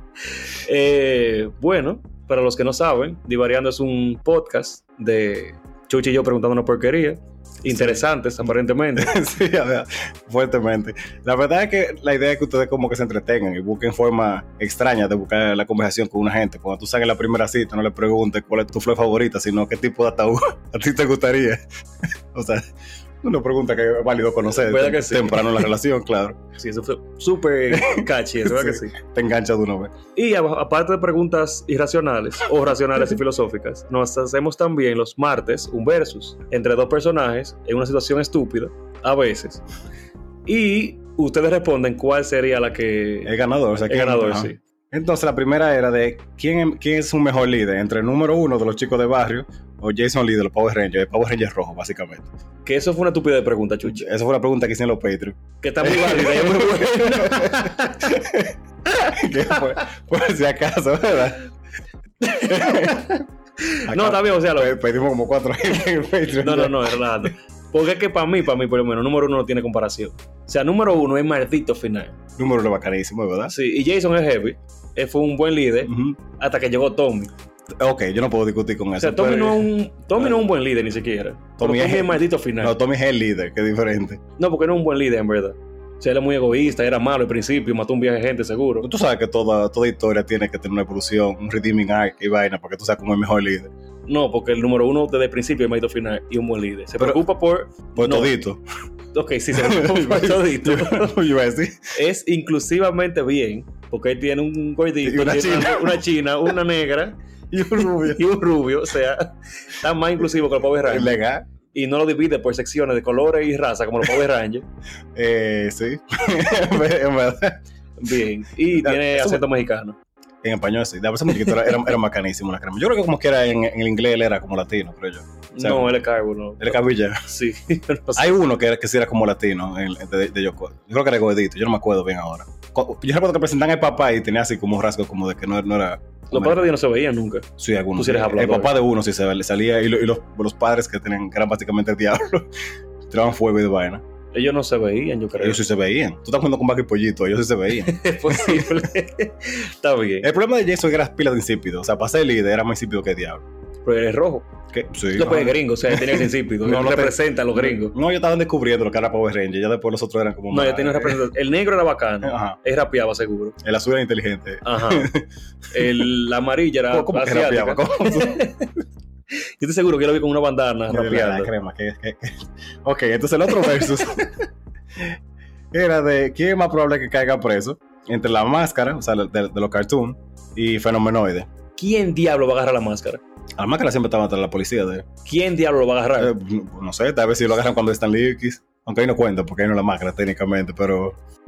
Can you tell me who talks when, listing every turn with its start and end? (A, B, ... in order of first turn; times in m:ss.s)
0:00.3-0:09.2 A
0:07.7-0:08.0 B
0:09.0-0:22.7 B
0:23.2-0:26.4 B
0:24.5-0:25.7 A
0:26.6-0:29.0 A
0:27.7-0:29.9 B
0:30.2-0:39.6 A
0:40.5-0:43.3 A
0:43.2-0:52.3 B
0:43.9-0:44.6 A
0:52.6-0:54.0 A
0:53.8-1:01.4 B
0:55.6-0:58.2 A
0:58.9-0:59.6 A
1:02.2-1:04.8 A
1:02.3-1:03.2 B
1:03.9-1:07.0 B
1:06.4-1:12.2 A
1:12.4-1:13.6 B
1:13.5-1:17.3 A
1:15.8-1:16.2 B
1:17.8-1:20.3 B
1:19.0-1:22.8 A
1:21.6-1:24.2 B
1:24.4-1:28.9 A
1:28.8-1:33.7 B
1:34.1-1:38.3 A
1:38.0-1:38.6 B
1:39.1-1:41.2 A
1:39.5-1:41.9 B
1:42.0-1:47.2 A
1:45.0-1:46.0 B
1:47.5-1:48.2 B
1:47.8-1:51.2 A
1:50.8-1:51.5 B
1:51.7-1:54.7 A
1:55.2-1:57.6 B
1:58.0-2:00.0 A
1:58.7-1:59.5 B
2:00.4-2:06.0 B
2:01.4-2:01.7 A
2:05.5-2:08.4 A
2:06.6-2:07.2 B
2:08.2-2:16.7 B
2:16.3-2:18.8 A
2:17.6-2:22.5 B
2:23.1-2:24.0 B
2:24.3-2:25.6 A
2:25.4-2:28.9 B
2:27.8-2:30.3 A
2:30.2-2:33.4 B
2:33.8-2:34.5 A
2:34.7-2:41.2 B
2:35.1-2:38.0 A
2:40.5-2:43.6 A
2:42.2-2:42.6 B
2:43.6-2:45.3 B
2:44.6-2:45.1 A
2:45.7-2:48.8 A
2:45.8-2:46.0 B
2:46.9-2:48.4 B
2:49.3-2:51.5 A
2:50.9-2:54.3 B
2:53.7-2:54.3 A
2:55.7-3:01.5 B
3:01.8-3:03.2 A
3:03.6-3:05.1 B
3:05.2-3:06.3 A
3:06.2-3:11.2 B